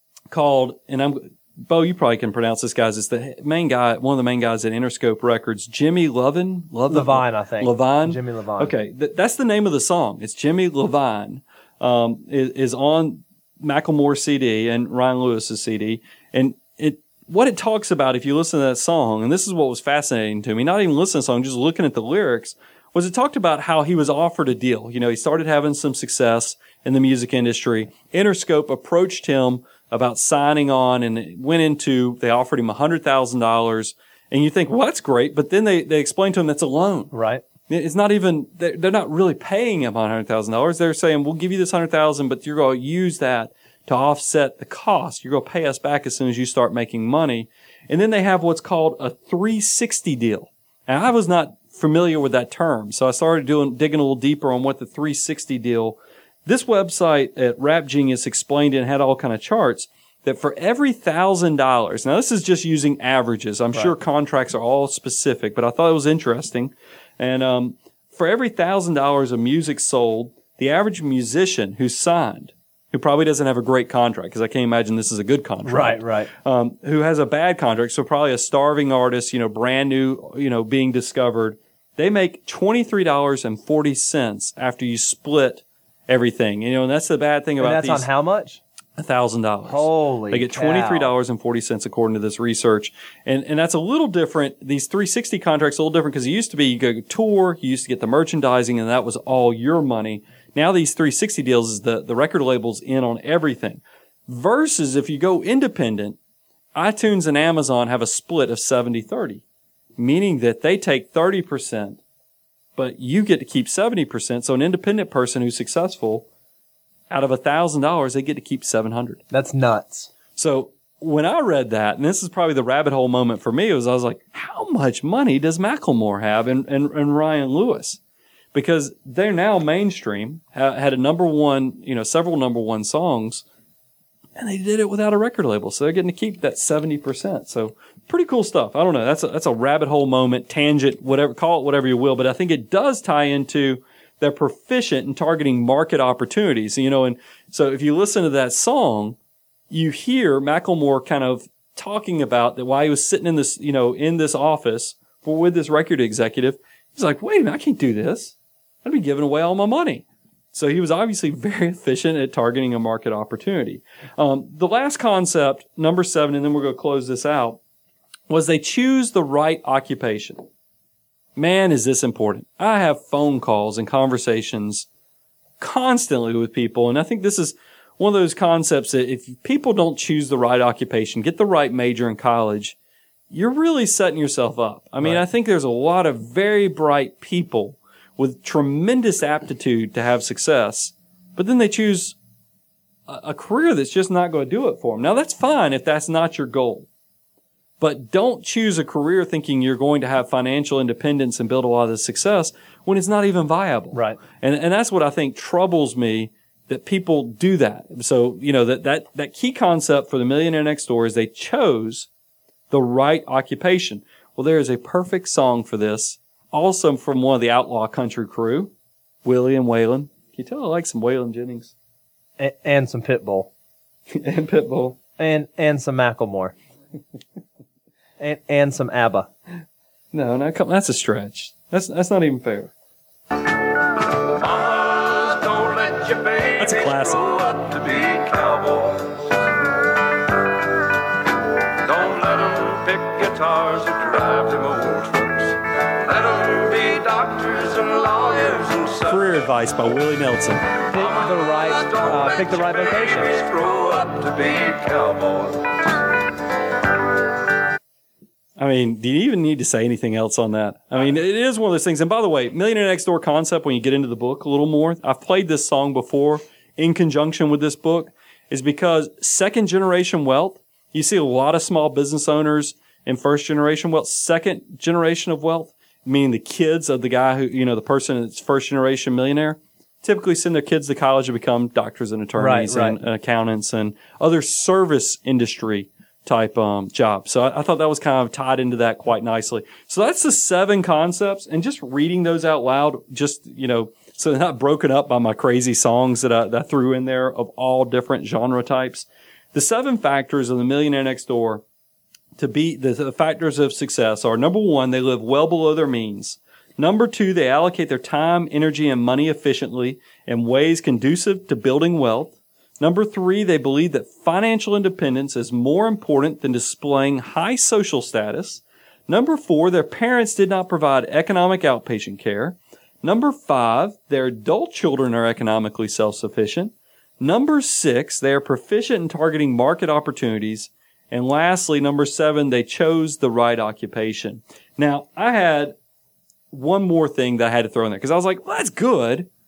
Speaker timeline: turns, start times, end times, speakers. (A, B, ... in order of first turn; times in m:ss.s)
0:00.3-0:37.1 A
0:06.9-0:08.7 B
0:37.1-0:37.4 B
0:37.7-1:28.1 A
1:15.7-1:16.3 B
1:27.6-1:28.6 B
1:29.0-1:46.2 A
1:29.7-1:31.1 B
1:46.8-1:49.4 A
1:50.0-1:52.0 A
1:52.8-1:56.3 A
1:57.1-1:59.2 A
1:59.3-2:00.1 B
2:00.4-2:08.0 A
2:08.5-2:13.4 A
2:14.4-2:29.2 A
2:29.7-2:47.6 A
2:48.3-2:50.5 A
2:51.4-2:54.9 A
2:55.6-3:02.8 A
3:03.3-3:12.1 A
3:13.1-3:16.9 A
3:17.8-3:32.1 A
3:23.9-3:24.2 B
3:32.7-3:38.7 A
3:39.2-3:41.7 A
3:42.4-3:43.5 B
3:44.1-3:45.0 A
3:45.2-3:46.5 B
3:48.2-3:49.3 B
3:50.1-3:52.7 A
3:54.4-3:59.2 C
3:56.6-3:57.3 A
4:01.9-4:09.3 C
4:09.1-4:10.8 A
4:10.9-4:13.4 B
4:11.0-4:15.7 C
4:18.6-5:01.6 A
4:42.4-4:43.0 B
5:02.4-5:35.7 A
5:36.5-5:39.3 A